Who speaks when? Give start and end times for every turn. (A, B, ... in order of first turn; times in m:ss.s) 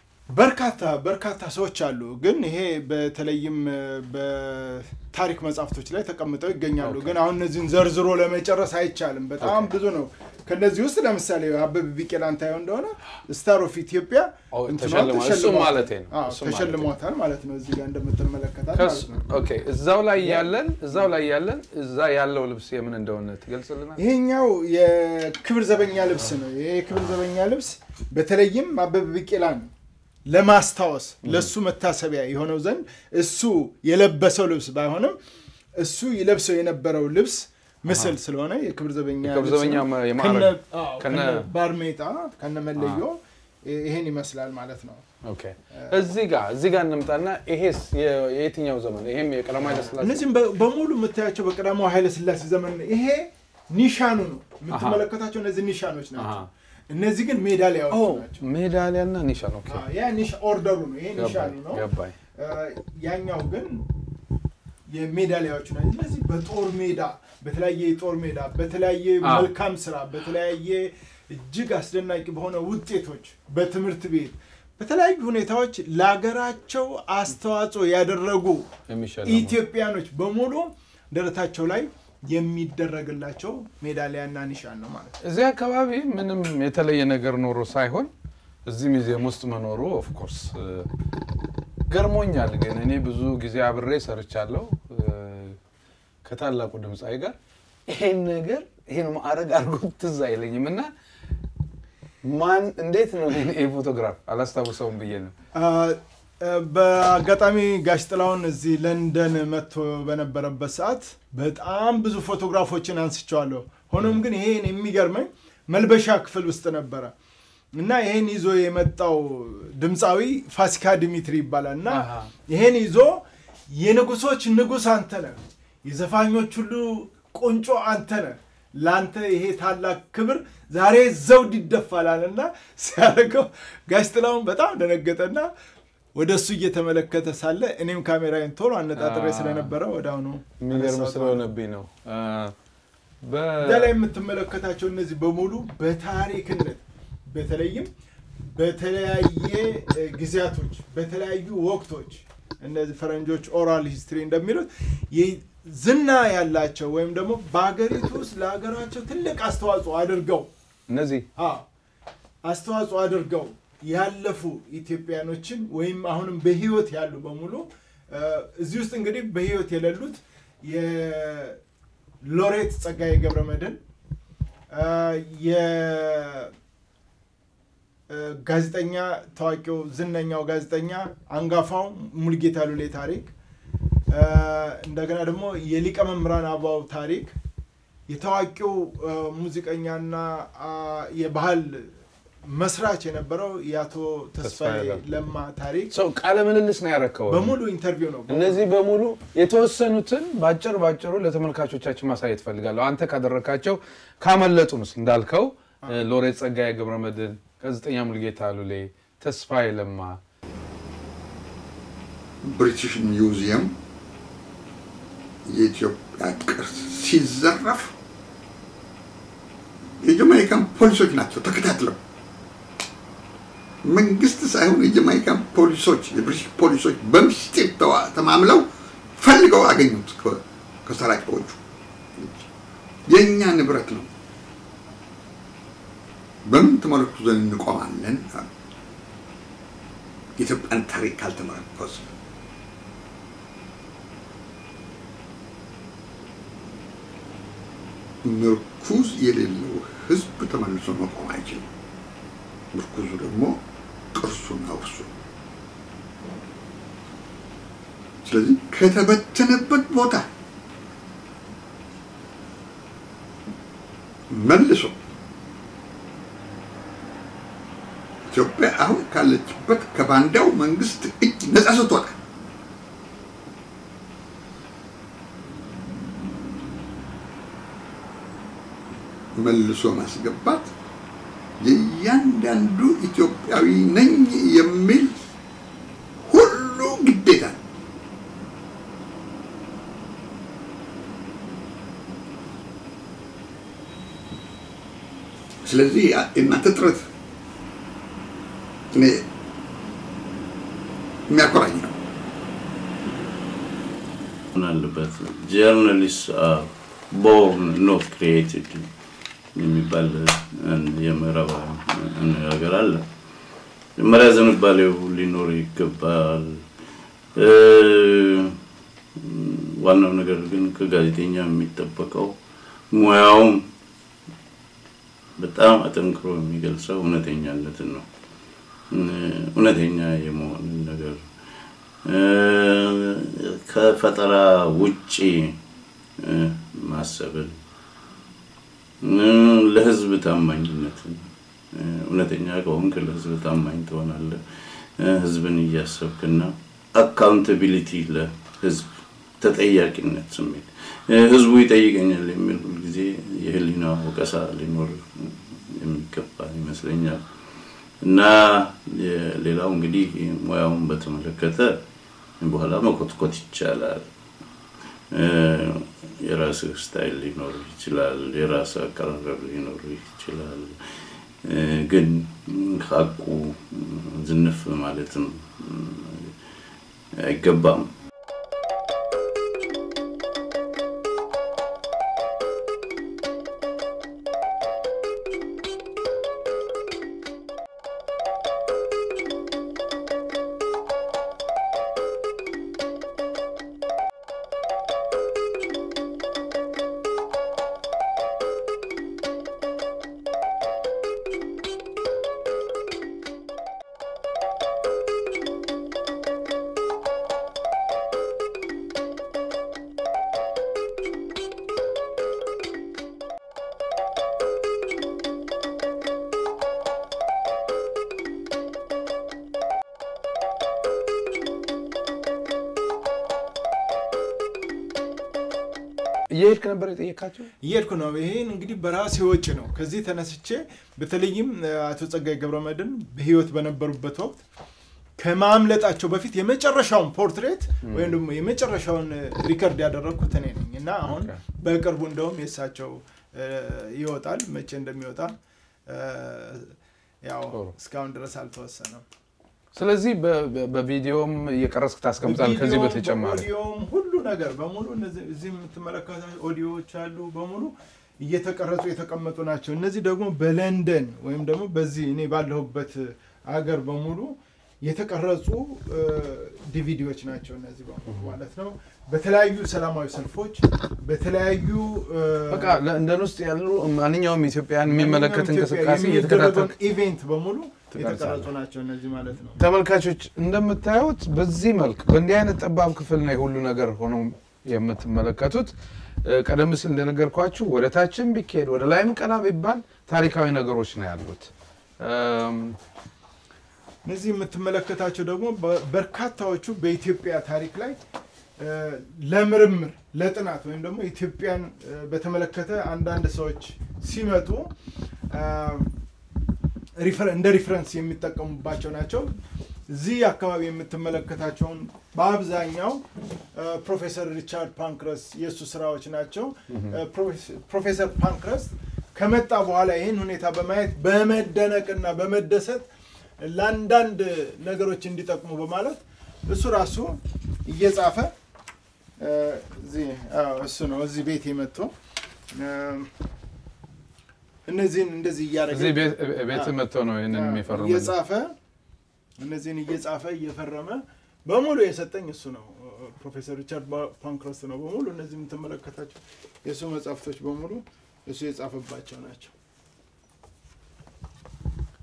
0:00.3-0:19.3 A
0:06.8-0:07.2 B
0:09.4-0:09.7 B
0:14.5-0:16.9 B
0:18.8-0:24.0 B
0:20.2-0:21.0 A
0:24.0-0:29.7 A
0:30.3-0:35.2 A
0:31.2-0:31.5 B
0:35.8-0:45.0 A
0:37.9-0:38.2 B
0:39.2-0:41.5 B
0:42.8-0:43.0 B
0:45.2-0:50.2 B
0:45.7-0:46.1 A
0:50.0-0:58.4 A
0:54.7-0:55.0 B
0:56.2-0:56.5 B
0:57.9-0:59.8 B
0:59.7-1:01.8 A
1:01.2-1:02.2 B
1:02.4-1:03.9 A
1:04.9-1:18.7 A
1:09.2-1:09.5 B
1:18.9-1:19.6 B
1:19.2-1:25.2 A
1:25.2-1:28.1 B
1:28.7-1:30.9 B
1:31.9-1:35.6 B
1:36.2-1:37.4 B
1:37.9-1:40.9 B
1:42.2-1:45.3 B
1:45.6-1:57.1 A
1:57.7-2:15.5 A
2:01.9-2:02.3 B
2:16.2-2:21.5 A
2:19.0-2:19.8 B
2:20.6-2:22.6 B
2:23.2-2:24.0 B
2:23.6-2:40.5 A
2:40.9-2:41.3 B
2:41.4-2:41.7 A
2:42.4-2:51.6 A
2:52.2-2:53.8 A
2:54.7-2:56.5 A
2:58.1-3:03.3 A
3:04.1-3:07.4 A
3:08.1-3:15.9 A
3:14.4-3:15.0 B
3:15.9-3:17.6 B
3:17.3-3:18.6 A
3:18.3-3:30.2 B
3:32.4-3:33.7 C
3:35.4-3:37.9 C
3:40.0-3:42.0 C
3:43.8-3:51.6 C
3:52.2-3:52.5 C
3:53.1-3:54.1 C
3:56.4-3:58.5 C
4:00.4-4:02.1 C
4:08.2-4:11.7 C
4:12.7-4:13.6 C
4:14.1-4:15.1 C
4:18.2-4:20.3 C
4:24.3-4:25.0 C
4:28.3-4:32.2 C
4:39.4-4:40.7 C
4:41.6-4:45.2 C
4:46.3-4:47.6 C
4:55.6-4:57.1 C
4:58.9-4:59.3 C
5:01.3-5:01.9 C
5:04.6-5:08.9 D
5:09.6-5:13.1 D
5:14.0-5:16.7 D
5:17.4-5:18.6 D
5:19.2-5:22.4 D
5:22.9-5:23.7 D
5:25.4-5:28.1 D
5:28.9-5:31.4 D
5:32.0-5:35.6 D
5:36.2-5:37.6 D
5:39.0-6:01.8 D
6:02.4-6:04.1 D
6:05.1-6:16.4 D
6:17.2-6:17.9 D
7:06.3-7:07.5 B
7:07.6-7:14.4 A
7:15.2-7:25.4 A
7:17.8-7:18.2 B
7:21.1-7:21.4 B
7:25.9-7:29.0 A
7:29.7-7:33.5 B
7:32.2-7:52.8 A
7:48.1-7:48.3 B
7:52.5-7:56.8 B
7:54.8-7:59.6 A
7:57.9-7:58.5 B
7:59.6-8:12.8 B
8:14.0-8:18.0 A
8:18.6-8:24.7 A
8:25.3-8:25.9 A
8:27.0-8:29.4 A
8:29.9-8:42.9 A
8:36.7-8:37.0 B
8:43.4-8:48.3 A
8:49.2-8:51.9 A
8:52.5-8:53.1 A
8:54.7-8:56.8 A
8:55.7-8:58.1 B
8:57.3-8:58.6 A
8:59.4-9:09.5 A